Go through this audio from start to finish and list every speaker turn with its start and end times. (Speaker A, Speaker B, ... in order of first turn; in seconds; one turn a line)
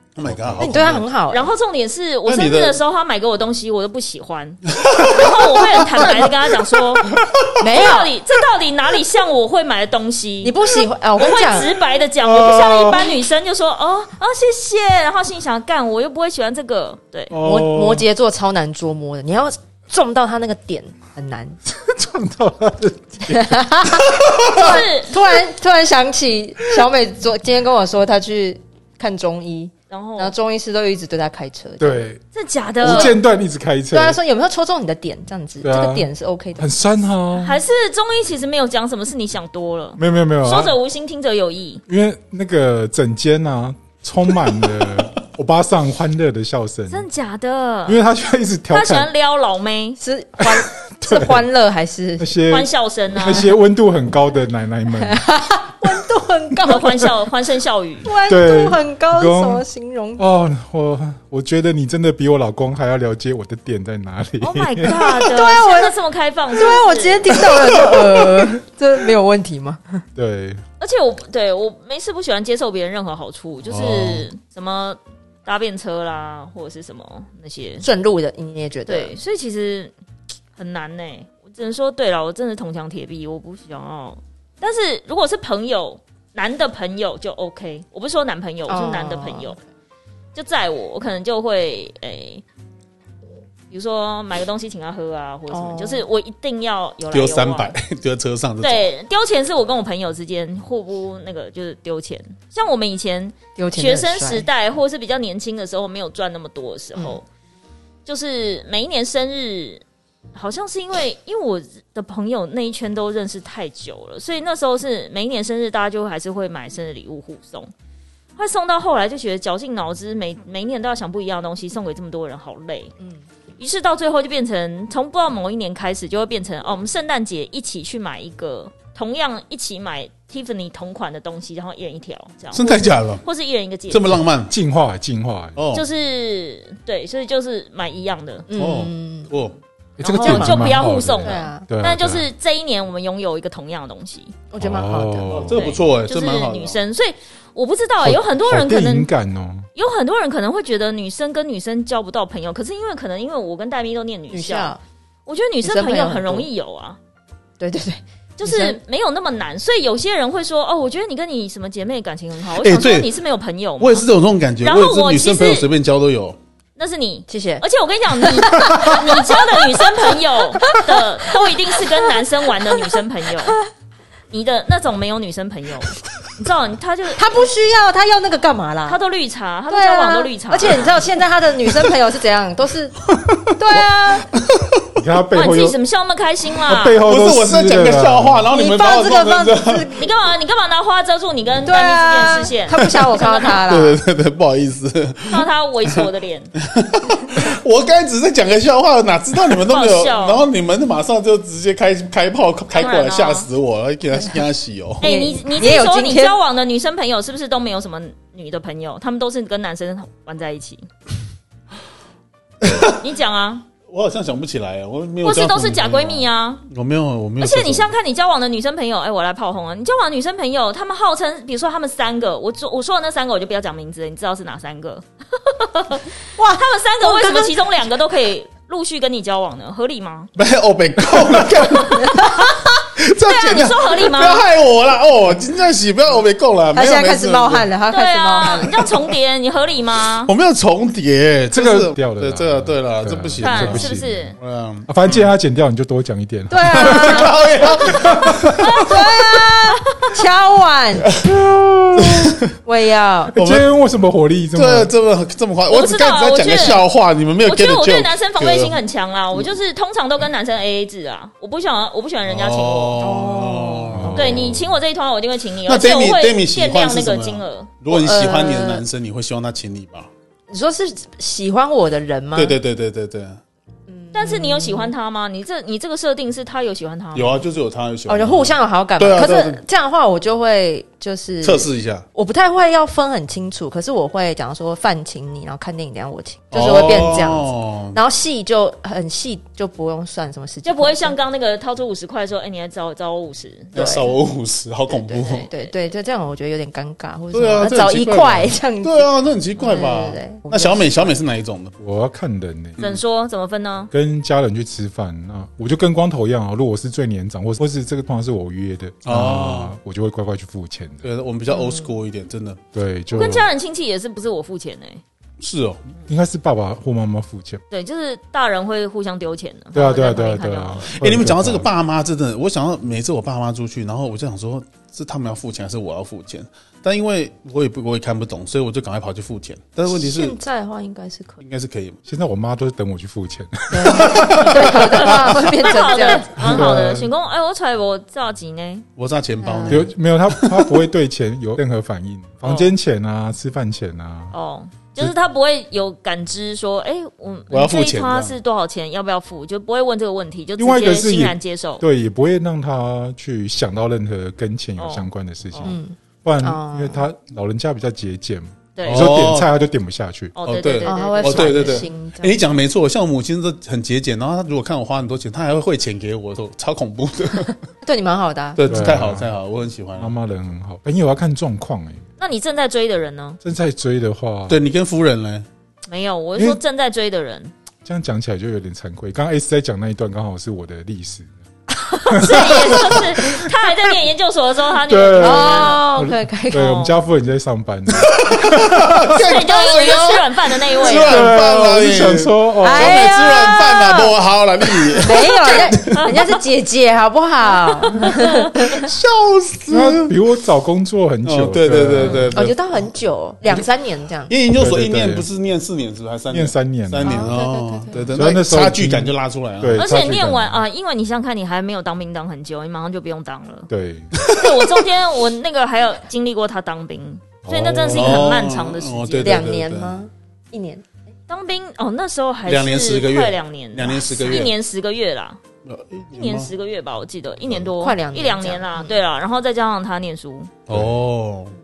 Speaker A: 0.2-1.1
Speaker B: 0.3-0.8
Speaker C: 0.6-1.5
Speaker D: 1.3-7.1
Speaker A: 2.3-2.8
Speaker A: 4.7-6.4
Speaker A: 7.0-7.5
Speaker C: 7.6-8.1
Speaker D: 7.7-10.6
Speaker C: 10.4-11.7
Speaker D: 11.2-17.3
Speaker B: 12.2-13.2
Speaker B: 17.3-18.1
Speaker C: 17.4-21.6
Speaker B: 21.7-24.1
Speaker C: 23.3-32.0
Speaker D: 24.5-25.3
Speaker D: 29.9-30.4
Speaker B: 31.8-32.2
Speaker D: 32.3-33.2
Speaker B: 32.8-34.2
Speaker C: 32.8-33.1
Speaker C: 33.9-36.9
Speaker B: 35.6-37.6
Speaker D: 37.4-41.8
Speaker B: 40.0-40.8
Speaker B: 41.9-47.0
Speaker D: 46.9-48.0
Speaker B: 47.9-49.1
Speaker D: 48.7-50.0
Speaker C: 50.0-52.4
Speaker B: 50.4-51.5
Speaker B: 52.2-55.2
Speaker D: 52.5-53.5
Speaker C: 55.0-57.1
Speaker D: 56.6-58.1
Speaker C: 58.0-60.2
Speaker B: 58.3-59.6
Speaker B: 60.2-65.0
Speaker D: 64.4-67.5
Speaker C: 64.9-66.0
Speaker C: 66.5-70.0
Speaker B: 70.2-70.6
Speaker D: 70.8-77.9
Speaker A: 73.7-74.3
Speaker C: 77.8-79.2
Speaker D: 78.9-79.9
Speaker D: 80.6-89.6
Speaker C: 88.7-89.6
Speaker D: 90.3-92.4
Speaker D: 93.7-97.8
Speaker C: 95.5-96.0
Speaker A: 97.1-98.9
Speaker D: 98.6-107.2
Speaker C: 103.6-104.5
Speaker D: 108.1-109.8
Speaker D: 110.3-117.7
Speaker D: 118.4-122.9
Speaker D: 123.6-134.2
Speaker A: 132.5-133.2
Speaker A: 133.9-134.5
Speaker B: 134.5-135.6
Speaker A: 135.6-135.9
Speaker D: 135.7-138.5
Speaker C: 138.5-139.3
Speaker A: 138.5-139.6
Speaker B: 140.0-142.3
Speaker D: 140.0-144.3
Speaker C: 140.2-141.7
Speaker C: 144.5-145.4
Speaker B: 144.6-145.6
Speaker A: 145.2-146.8
Speaker D: 145.5-149.1
Speaker B: 148.0-149.7
Speaker D: 149.8-154.8
Speaker C: 154.3-154.8
Speaker D: 155.3-157.0
Speaker C: 155.6-156.5
Speaker C: 157.6-158.8
Speaker D: 158.4-164.1
Speaker A: 162.6-163.1
Speaker A: 163.8-166.4
Speaker D: 164.6-165.7
Speaker D: 166.8-173.6
Speaker C: 167.3-167.6
Speaker C: 168.2-172.2
Speaker D: 174.3-177.4
Speaker C: 177.2-179.0
Speaker D: 178.8-181.1
Speaker C: 179.7-183.0
Speaker A: 183.3-184.9
Speaker C: 183.6-184.3
Speaker B: 185.0-185.8
Speaker D: 185.3-187.0
Speaker B: 186.6-188.5
Speaker A: 187.0-189.9
Speaker C: 188.5-190.1
Speaker D: 190.0-193.6
Speaker C: 191.7-194.0
Speaker A: 192.8-193.1
Speaker A: 193.7-195.9
Speaker D: 195.3-196.5
Speaker A: 196.6-205.0
Speaker D: 199.7-200.4
Speaker D: 202.8-203.5
Speaker C: 205.0-206.4
Speaker D: 205.0-210.9
Speaker A: 212.6-213.0
Speaker D: 212.7-213.7
Speaker A: 213.9-217.9
Speaker D: 215.2-216.6
Speaker D: 217.4-230.3
Speaker C: 226.4-227.8
Speaker A: 230.4-237.7
Speaker C: 232.0-232.3
Speaker D: 233.2-234.5
Speaker C: 236.7-238.8
Speaker D: 237.9-240.3
Speaker A: 240.3-245.3
Speaker B: 241.5-244.3
Speaker D: 243.4-244.4
Speaker B: 244.9-248.6
Speaker C: 246.5-248.0
Speaker A: 246.7-248.6
Speaker D: 248.6-250.2
Speaker C: 248.8-251.1
Speaker B: 251.2-252.4
Speaker A: 252.0-252.4
Speaker C: 252.6-253.3
Speaker B: 253.3-254.9
Speaker A: 253.3-253.7
Speaker A: 254.6-258.8
Speaker D: 255.7-256.8
Speaker D: 257.4-263.0
Speaker A: 262.3-264.7
Speaker C: 263.0-264.1
Speaker B: 263.9-264.6
Speaker D: 264.1-267.7
Speaker A: 265.6-270.1
Speaker C: 267.9-268.8
Speaker C: 270.5-272.6
Speaker A: 272.4-273.4
Speaker C: 273.9-274.9
Speaker D: 274.1-277.4
Speaker A: 277.1-279.6
Speaker C: 278.1-291.2
Speaker A: 281.4-282.1
Speaker A: 286.5-288.0
Speaker D: 290.6-293.8
Speaker A: 293.7-295.5
Speaker C: 293.8-294.1
Speaker C: 294.9-299.1
Speaker D: 295.3-295.8
Speaker A: 297.3-301.7
Speaker C: 299.6-301.1
Speaker B: 301.8-302.8
Speaker D: 302.8-303.9
Speaker B: 303.9-311.1
Speaker A: 309.1-309.8
Speaker A: 311.0-312.6
Speaker C: 311.5-311.9
Speaker B: 312.7-313.5
Speaker D: 313.1-315.0
Speaker A: 315.4-315.8
Speaker B: 316.1-317.6
Speaker D: 317.7-321.0
Speaker B: 319.7-321.7
Speaker A: 321.0-330.4
Speaker C: 329.9-331.4
Speaker A: 331.4-332.0
Speaker B: 332.1-335.4
Speaker C: 333.7-336.5
Speaker A: 334.0-334.9
Speaker D: 334.6-338.9
Speaker B: 336.4-337.1
Speaker A: 339.0-340.7
Speaker C: 339.4-339.9
Speaker B: 339.7-344.3
Speaker D: 342.4-342.8
Speaker D: 344.3-351.8
Speaker A: 347.5-348.4
Speaker B: 350.6-360.4
Speaker D: 354.8-355.8
Speaker C: 355.6-357.0
Speaker D: 358.8-359.2
Speaker A: 358.8-359.5
Speaker D: 360.4-361.9
Speaker A: 360.4-367.6
Speaker C: 360.8-362.4
Speaker C: 367.8-368.9
Speaker A: 368.6-370.1
Speaker B: 368.7-369.3
Speaker B: 370.0-372.0
Speaker D: 372.2-373.4
Speaker B: 373.4-374.6
Speaker A: 374.5-375.5
Speaker D: 375.9-377.5
Speaker B: 376.4-376.6
Speaker B: 377.9-381.3
Speaker D: 382.1-387.0
Speaker B: 382.1-383.5
Speaker B: 384.9-389.2
Speaker C: 385.2-386.9
Speaker A: 388.0-396.3
Speaker D: 389.1-391.3
Speaker B: 391.0-393.1
Speaker C: 392.6-394.1
Speaker C: 394.9-398.9
Speaker D: 395.4-396.2
Speaker D: 397.7-398.5
Speaker A: 398.7-400.1
Speaker B: 399.7-402.4
Speaker A: 401.2-402.9
Speaker C: 402.3-404.3
Speaker A: 404.3-409.8
Speaker B: 404.5-405.3
Speaker B: 406.3-407.4
Speaker C: 407.0-408.4
Speaker B: 408.1-410.6
Speaker D: 409.8-413.7
Speaker B: 413.7-414.1
Speaker A: 414.1-414.9
Speaker D: 414.3-419.5
Speaker B: 417.4-418.3
Speaker A: 417.9-420.0
Speaker C: 419.2-420.9
Speaker D: 421.3-425.4
Speaker A: 422.5-424.5
Speaker A: 425.6-426.5
Speaker D: 426.1-430.5
Speaker C: 427.8-428.9
Speaker A: 430.7-431.6
Speaker B: 430.7-431.0